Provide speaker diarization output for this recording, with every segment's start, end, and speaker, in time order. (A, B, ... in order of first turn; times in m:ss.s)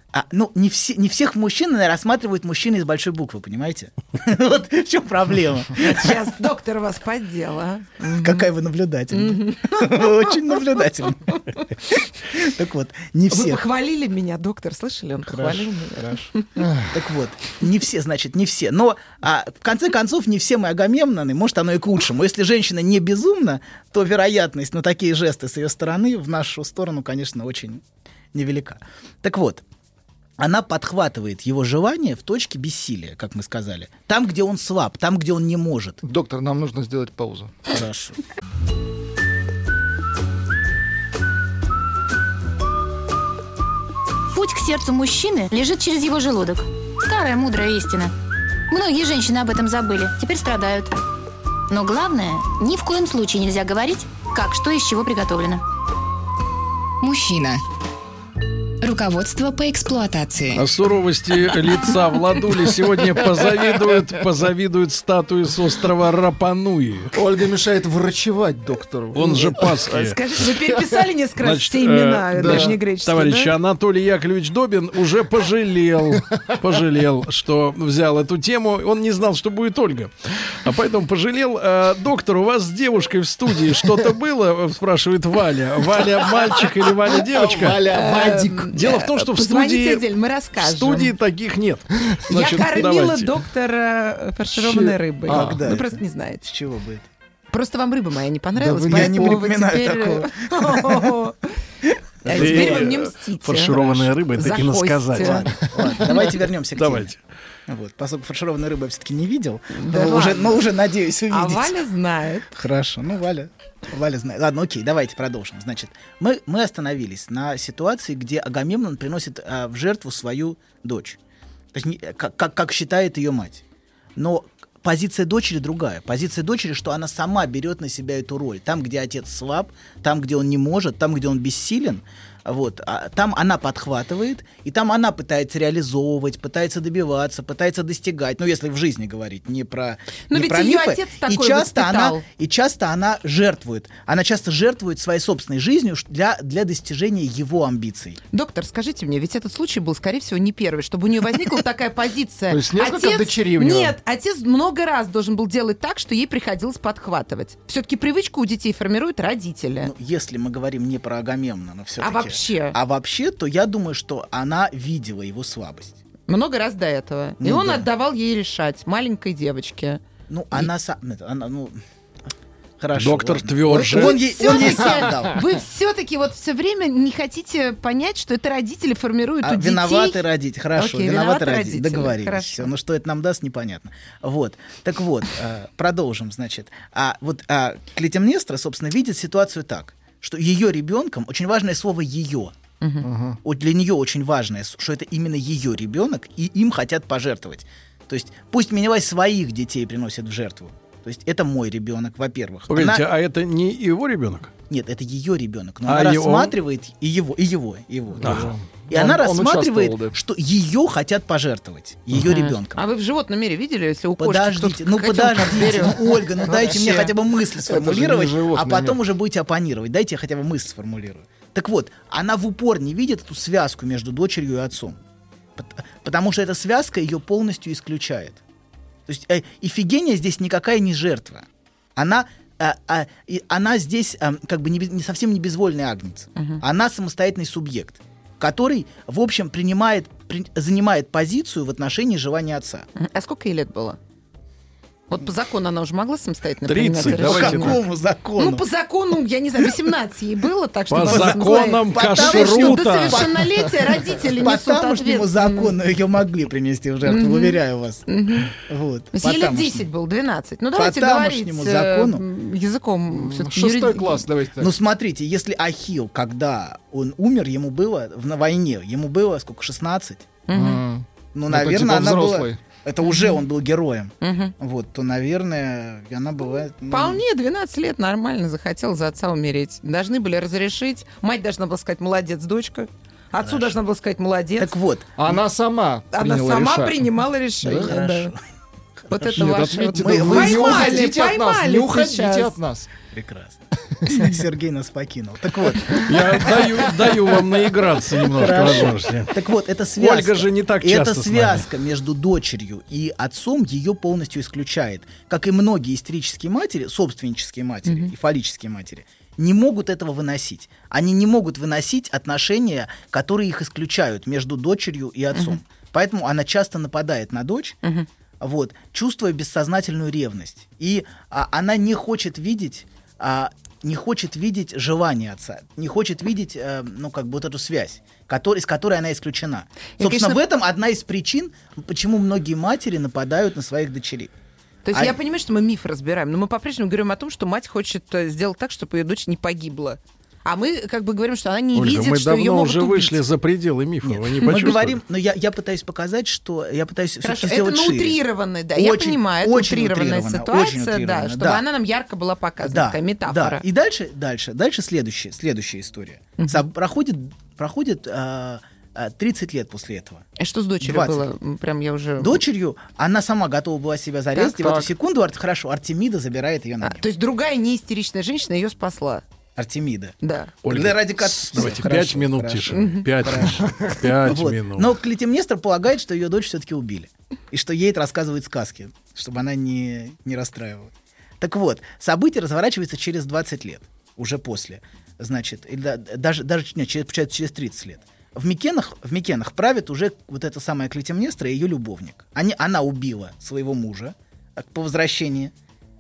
0:00.1-0:06.2 A
0:05.8-0:08.4 B
0:08.0-0:11.4 A
0:09.1-0:11.6 B
0:11.9-0:13.6 A
0:13.3-0:16.5 B
0:15.2-0:29.6 A
0:16.6-0:16.9 C
0:30.4-0:36.0 A
0:36.0-0:37.6 C
0:37.7-0:38.2 A
0:44.3-0:48.1 D
0:48.7-0:51.0 D
0:51.7-0:55.6 D
0:57.0-0:57.6 E
0:58.8-1:00.7 E
1:00.6-1:07.1 F
1:03.4-1:04.0 C
1:07.1-1:09.9 C
1:09.1-1:10.2 F
1:09.9-1:13.5 B
1:10.4-1:10.8 C
1:11.4-1:27.8 F
1:12.4-1:12.8 C
1:26.0-1:28.7 C
1:27.9-1:31.1 B
1:28.7-1:33.4 F
1:32.3-1:36.4 B
1:34.6-1:35.7 C
1:35.3-1:37.1 A
1:37.5-1:41.5 B
1:38.6-1:39.4 C
1:38.9-1:41.2 A
1:41.8-1:42.9 A
1:42.2-1:43.8 B
1:42.3-1:45.5 F
1:43.7-1:44.1 A
1:44.3-1:45.5 B
1:45.2-1:47.2 A
1:46.8-1:47.2 F
1:47.7-1:51.8 A
1:49.7-1:50.7 B
1:51.3-1:52.5 B
1:52.5-2:01.2 A
2:01.7-2:03.6 A
2:04.2-2:28.2 A
2:20.3-2:22.2 B
2:28.3-2:39.9 B
2:32.5-2:34.0 C
2:39.8-2:46.0 A
2:42.0-2:42.8 B
2:46.3-2:50.0 B
2:47.4-2:47.9 A
2:50.3-2:51.8 A
2:52.8-2:55.4 A
2:52.9-2:54.2 F
2:53.7-3:00.2 B
2:59.4-3:12.6 A
3:00.8-3:02.7 B
3:12.8-3:13.1 B
3:13.0-3:13.4 C
3:13.4-3:23.0 A
3:22.7-3:24.5 F
3:24.7-3:32.8 A
3:25.9-3:26.5 F
3:28.2-3:30.2 C
3:28.2-3:28.5 F
3:32.2-3:37.1 B
3:34.2-3:45.0 A
3:37.6-3:39.0 C
3:45.6-3:48.4 A
3:49.1-4:02.9 A
3:56.4-3:56.6 B
4:03.0-4:04.0 B
4:05.1-4:07.8 B
4:06.7-4:07.8 F
4:07.0-4:08.6 A
4:08.4-4:15.7 B
4:10.9-4:13.3 F
4:11.0-4:19.9 A
4:17.0-4:18.5 B
4:19.1-4:24.3 B
4:20.8-4:22.2 A
4:23.1-4:24.7 C
4:24.6-4:30.3 A
4:30.5-4:30.8 B
4:30.5-4:32.6 C
4:31.3-4:37.2 A
4:33.0-4:33.4 B
4:34.2-4:34.5 B
4:36.9-4:44.7 B
4:43.4-4:43.8 A
4:44.6-4:45.4 A
4:45.2-4:47.1 C
4:46.1-4:48.3 B
4:47.6-4:47.9 C
4:47.6-4:48.4 A
4:49.1-4:52.6 B
4:49.2-4:51.0 A
4:49.3-4:52.9 C
4:53.1-4:56.9 A
4:56.1-4:59.4 F
4:58.2-5:17.8 A
5:00.0-5:01.7 F
5:07.8-5:08.1 B
5:15.3-5:15.6 B
5:18.4-5:34.3 A
5:30.0-5:30.4 B
5:34.9-5:43.2 B
5:41.7-5:45.0 F
5:44.0-5:48.2 A
5:47.2-5:53.6 B
5:48.7-5:51.7 A
5:52.6-6:00.3 A
5:56.4-5:56.6 B
6:00.4-6:02.4 B
6:00.8-6:01.3 A
6:02.2-6:07.1 A
6:04.6-6:04.9 C
6:06.8-6:09.2 B
6:09.6-6:35.5 A
6:10.2-6:10.5 B
6:10.6-6:14.9 F
6:12.7-6:13.1 B